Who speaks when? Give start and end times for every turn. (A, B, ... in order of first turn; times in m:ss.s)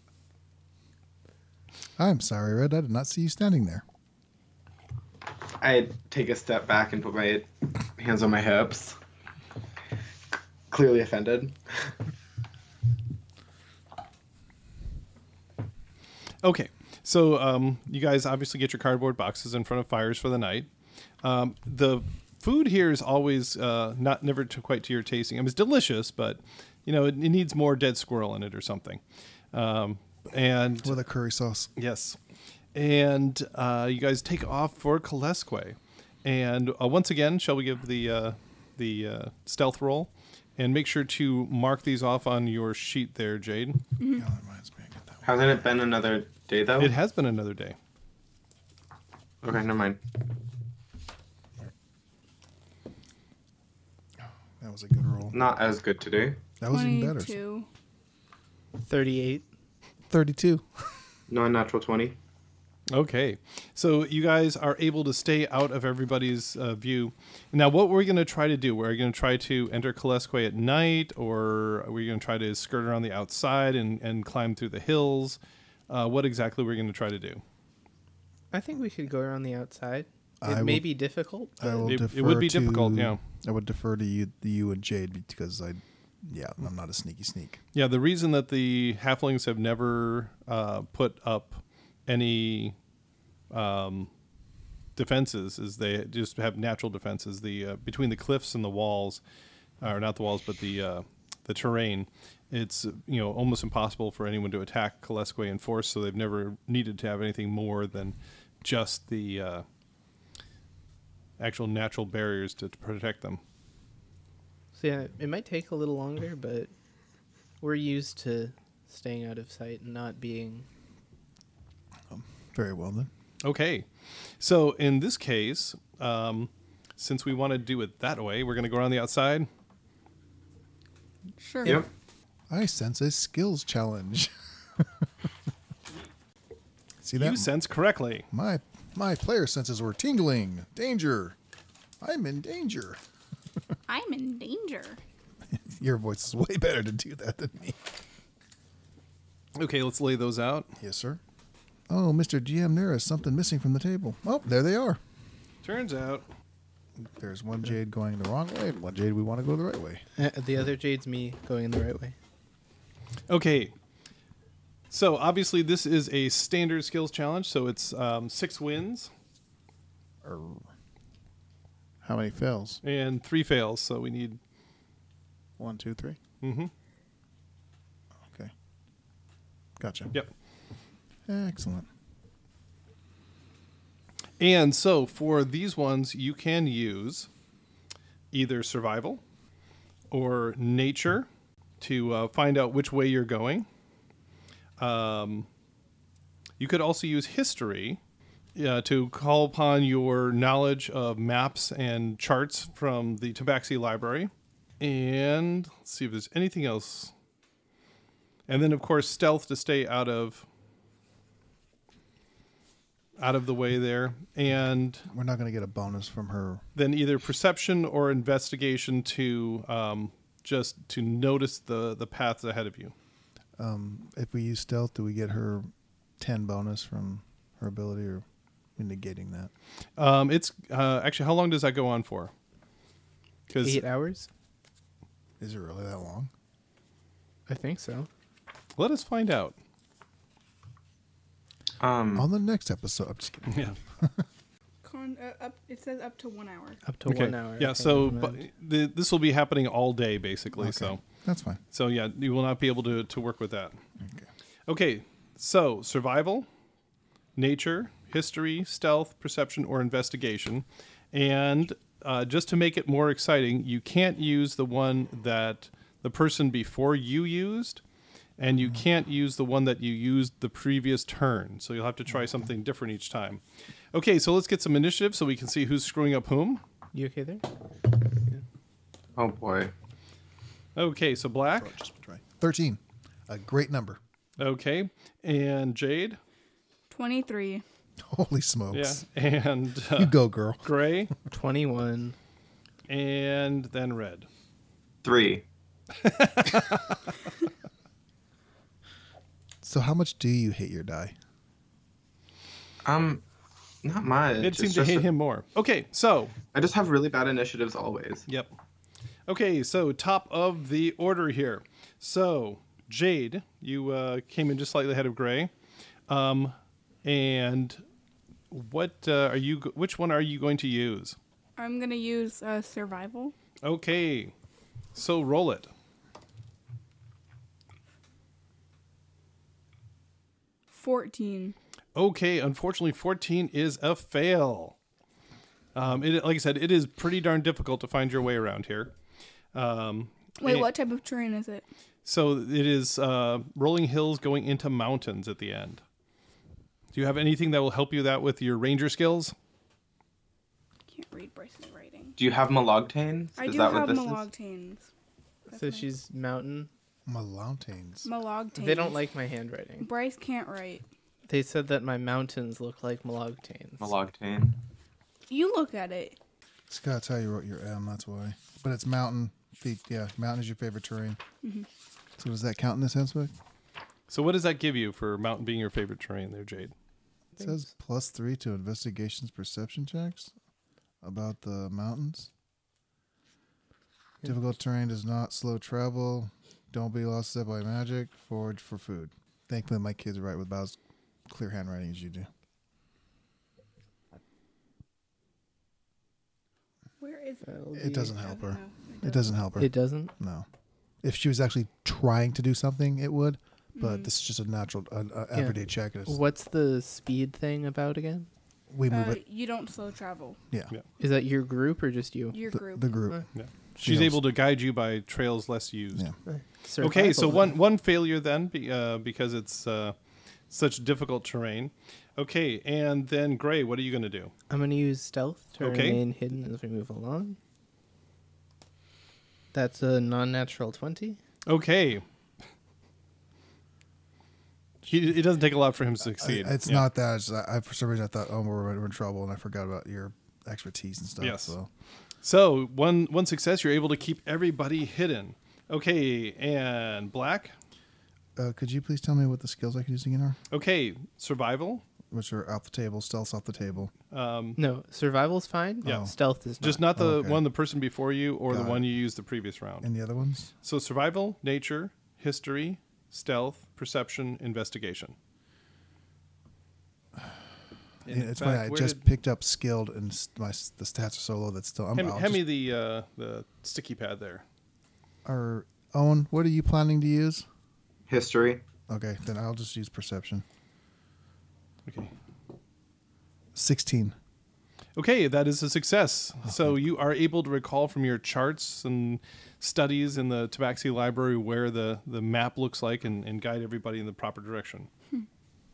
0:02.0-0:03.8 A
0:05.6-0:09.0 B
0:10.7-0:11.9 B
0:16.4-0:20.7 C
0:21.2-0:29.0 C
0:29.5-0:31.0 C
0:30.8-0:31.7 A
0:31.8-0:32.2 C
0:32.7-0:43.8 C
0:44.0-0:44.2 D
0:44.1-0:45.5 A
0:45.2-0:46.9 B
0:46.8-0:47.8 C
0:49.4-0:50.0 B
0:54.6-0:55.4 A
0:55.3-0:56.4 B
0:56.6-0:57.3 A
0:56.7-0:57.7 D
0:58.8-0:59.5 E
1:00.1-1:00.6 A
1:01.3-1:02.2 B
1:02.9-1:15.4 C
1:15.9-1:17.4 C
1:18.5-1:21.9 E
1:20.4-1:20.9 A
1:21.6-1:27.6 A
1:21.8-1:23.2 C
1:27.7-1:32.7 C
1:33.5-1:34.1 C
1:35.0-1:39.2 C
1:39.8-1:49.6 C
1:51.4-1:53.4 C
1:54.7-1:56.7 E
1:57.6-2:00.6 E
2:02.1-2:03.1 A
2:03.4-2:03.9 C
2:04.4-2:09.5 C
2:11.4-2:11.8 D
2:12.5-2:15.0 A
2:17.0-2:17.5 A
2:17.2-2:18.2 C
2:18.3-2:21.4 A
2:22.0-2:23.0 A
2:23.9-2:25.0 D
2:25.5-2:27.8 A
2:29.6-2:30.7 C
2:30.8-2:31.2 A
2:31.9-2:35.0 A
2:35.6-2:36.2 C
2:37.0-2:40.0 A
2:40.2-2:42.2 E
2:43.3-2:43.7 C
2:44.9-2:49.1 C
2:50.2-2:50.7 A
2:52.0-2:52.8 A
2:52.8-2:54.4 C
2:55.6-2:56.2 A
2:56.4-2:56.7 C
2:58.2-2:58.5 A
2:59.8-3:00.1 A
3:01.3-3:01.9 A
3:04.4-3:07.3 C
3:08.3-3:09.2 C
3:10.1-3:11.3 C
3:11.8-3:13.7 C
3:14.8-3:15.5 C
3:16.6-3:18.0 C
3:18.5-3:27.1 C
3:28.5-3:30.4 C
3:33.2-3:35.0 C
3:35.1-3:36.6 A
3:36.8-3:42.9 C
3:43.6-3:48.2 A
3:48.8-3:49.5 A
3:50.0-3:52.3 C
3:53.5-3:53.8 C
3:53.6-3:54.3 E
3:55.4-3:56.3 A
3:57.5-3:58.1 E
3:58.8-3:59.5 C
4:01.8-4:02.2 B
4:02.1-4:04.2 A
4:03.5-4:03.8 C
4:04.8-4:06.8 D
4:06.8-4:08.4 E
4:07.0-4:11.0 C
4:10.6-4:11.6 A
4:11.7-4:13.8 C
4:14.0-4:14.3 A
4:14.7-4:16.5 C
4:17.4-4:27.8 C
4:28.4-4:33.4 C
4:33.9-4:36.6 C
4:36.9-4:37.4 E
4:39.2-4:39.7 B
4:40.8-4:41.7 C
4:41.6-4:44.0 A
4:44.4-4:46.2 C
4:46.9-4:47.6 D
4:48.0-4:49.0 A
4:48.7-4:51.1 C
4:50.0-4:50.7 A
4:51.3-4:52.2 E
4:52.9-4:54.3 C
4:55.0-4:55.4 B
4:56.0-4:57.0 C
4:59.6-5:01.1 A
5:02.8-5:03.2 B
5:03.8-5:05.0 B
5:04.4-5:06.3 C
5:06.5-5:08.2 B
5:09.3-5:15.5 C
5:16.1-5:17.8 C
5:18.5-5:21.2 C
5:21.6-5:23.3 D
5:23.6-5:24.3 C
5:24.9-5:25.7 C
5:30.7-5:31.5 D
5:31.9-5:34.8 C
5:35.7-5:38.9 C
5:39.5-5:40.7 C
5:40.4-5:41.6 D
5:42.0-5:45.8 C
5:46.9-5:49.3 C
5:50.9-5:52.2 D
5:52.2-5:54.2 B
5:53.4-5:54.8 D
5:55.5-5:55.9 D
5:55.5-5:56.7 E
5:57.1-5:58.1 A
5:58.0-5:59.0 D
5:58.5-5:59.9 E
5:59.8-6:00.8 D
6:01.3-6:03.9 E
6:03.8-6:04.6 B
6:05.3-6:06.2 D
6:06.7-6:11.2 A
6:12.2-6:13.3 A
6:14.1-6:16.7 C
6:17.4-6:17.6 E
6:17.4-6:20.3 A
6:21.0-6:22.3 A
6:24.2-6:30.8 A
6:31.3-6:32.3 A
6:37.0-6:39.3 D
6:37.4-6:38.1 E
6:37.8-6:40.5 A
6:39.6-6:40.1 E
6:41.0-6:46.2 A
6:43.8-6:44.1 D
6:45.3-6:48.3 E
6:48.7-6:49.2 A
6:48.9-6:50.4 D
6:51.0-6:52.4 E
6:52.3-6:53.0 D
6:52.5-6:53.2 A
6:53.3-6:56.0 C
6:53.8-6:54.2 A
6:56.2-6:57.5 E
6:56.8-6:59.9 C
7:00.5-7:04.3 C
7:04.5-7:07.4 E
7:05.6-7:06.0 C
7:09.5-7:11.2 E
7:11.4-7:12.0 C
7:14.8-7:16.8 C
7:16.2-7:21.7 A
7:21.2-7:21.5 C
7:22.2-7:27.5 C
7:28.4-7:30.4 A
7:30.5-7:31.8 C
7:32.1-7:33.9 A
7:34.1-7:34.6 C
7:34.6-7:36.8 E
7:35.8-7:36.1 A
7:36.6-7:39.9 C
7:36.9-7:37.4 A
7:38.5-7:38.8 A
7:39.8-7:40.5 A
7:40.6-7:45.1 C
7:48.0-7:49.0 C
7:48.0-7:52.4 A
7:51.9-7:54.4 C
7:55.2-7:57.4 A
7:58.1-7:58.6 B
7:58.9-8:00.4 A
8:01.8-8:02.1 C
8:03.5-8:04.2 A
8:05.0-8:14.9 C